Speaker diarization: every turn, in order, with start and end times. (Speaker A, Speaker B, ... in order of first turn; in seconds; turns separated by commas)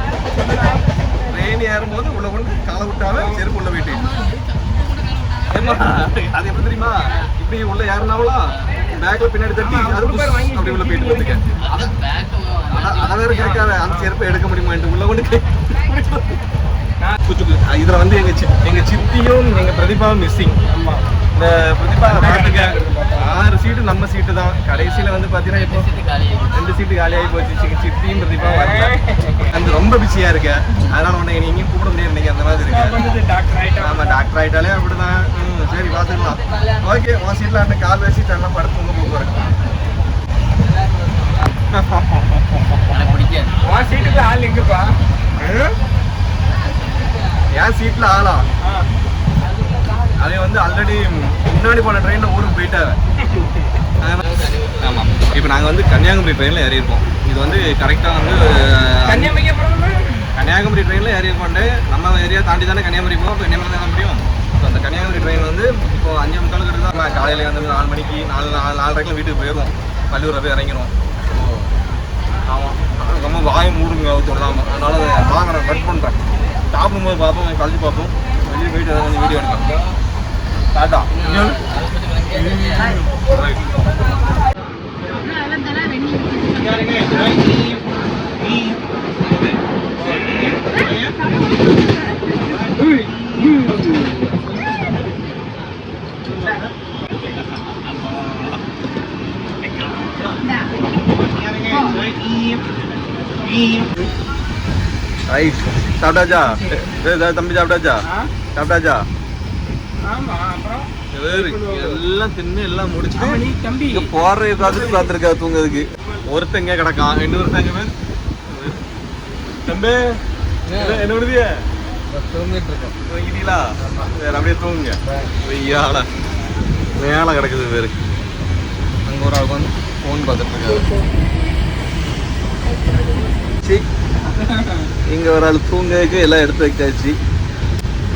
Speaker A: 0.3-1.2, Speaker B: 1.3-4.1, Speaker C: 3.9-5.8, Speaker B: 5.5-11.4, Speaker A: 9.6-11.6, Speaker C: 11.6-13.4, Speaker B: 12.8-16.1, Speaker A: 13.4-14.1, Speaker B: 17.3-20.6, Speaker A: 20.7-21.0, Speaker B: 21.4-25.9, Speaker A: 22.1-23.3, Speaker C: 25.5-26.6, Speaker B: 26.5-28.9, Speaker A: 28.4-29.4, Speaker B: 29.5-33.1, Speaker A: 32.7-34.2, Speaker B: 33.8-39.4, Speaker C: 36.0-36.9, Speaker C: 40.6-41.5, Speaker B: 41.7-43.0, Speaker C: 42.9-44.3, Speaker A: 43.6-45.0, Speaker B: 45.4-45.7, Speaker C: 46.5-47.4, Speaker B: 47.5-48.5, Speaker C: 49.4-50.2, Speaker B: 50.2-53.0, Speaker C: 54.2-55.5, Speaker B: 54.8-59.4, Speaker A: 59.0-60.2, Speaker B: 60.3-71.7, Speaker B: 72.4-76.2, Speaker B: 76.7-79.8, Speaker B: 80.7-81.6, Speaker C: 81.1-83.0, Speaker B: 82.3-83.5, Speaker A: 92.8-94.1, Speaker B: 105.3-108.0, Speaker A: 108.0-108.3, Speaker B: 108.5-109.0, Speaker A: 110.0-112.0, Speaker B: 111.1-117.9, Speaker A: 113.2-114.1, Speaker A: 114.6-115.1, Speaker B: 118.5-118.8, Speaker B: 119.7-120.2, Speaker B: 120.7-121.5, Speaker C: 122.1-122.9, Speaker B: 123.0-126.1, Speaker B: 127.0-128.0, Speaker B: 129.1-130.9, Speaker A: 130.8-131.1, Speaker B: 133.6-133.9, Speaker A: 134.3-134.9, Speaker B: 135.1-137.2